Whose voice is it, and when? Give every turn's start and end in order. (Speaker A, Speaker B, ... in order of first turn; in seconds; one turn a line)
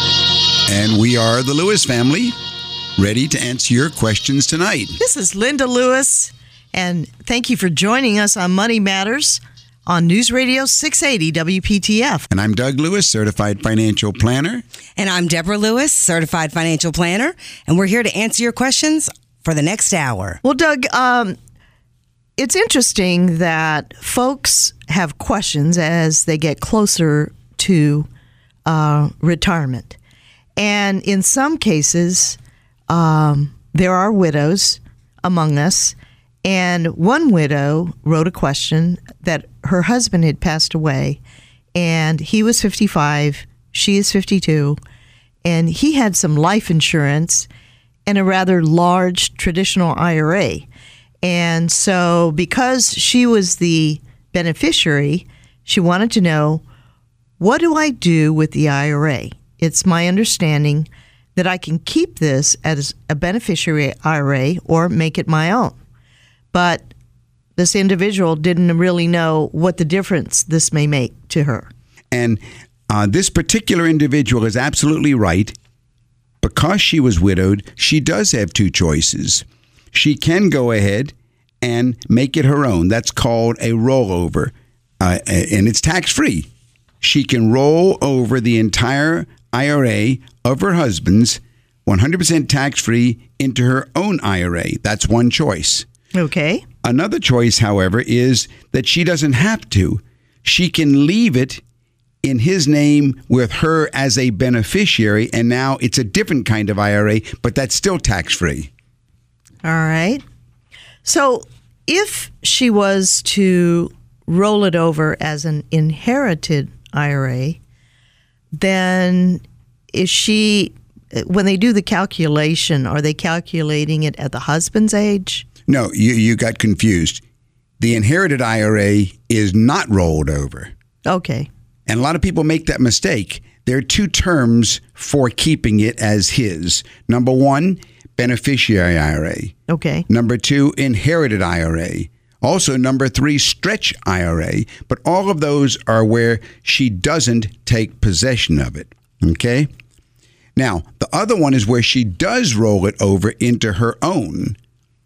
Speaker A: 0.7-2.4
Speaker A: 3.0-5.0
Speaker B: 5.0-12.3
Speaker A: 12.3-14.6
Speaker C: 15.0-20.4
Speaker B: 20.4-21.4
Speaker B: 22.4-28.1
Speaker B: 28.6-30.0
Speaker B: 30.6-32.4
Speaker B: 32.9-41.2
Speaker B: 41.7-44.8
Speaker B: 45.4-47.5
Speaker B: 48.1-50.7
Speaker B: 51.2-56.6
Speaker B: 57.4-65.8
Speaker B: 66.5-66.9
Speaker B: 67.5-71.7
Speaker A: 72.1-75.6
Speaker A: 76.4-86.5
Speaker A: 87.0-95.8
Speaker B: 96.1-96.6
Speaker A: 96.8-101.6
Speaker A: 102.2-108.7
Speaker B: 109.6-110.2
Speaker B: 111.0-117.6
Speaker B: 118.5-125.5
Speaker A: 125.7-127.2
Speaker A: 127.8-130.7
Speaker B: 131.0-131.5
Speaker A: 131.9-139.5
Speaker B: 139.7-140.0
Speaker A: 140.1-149.7
Speaker A: 150.6-154.6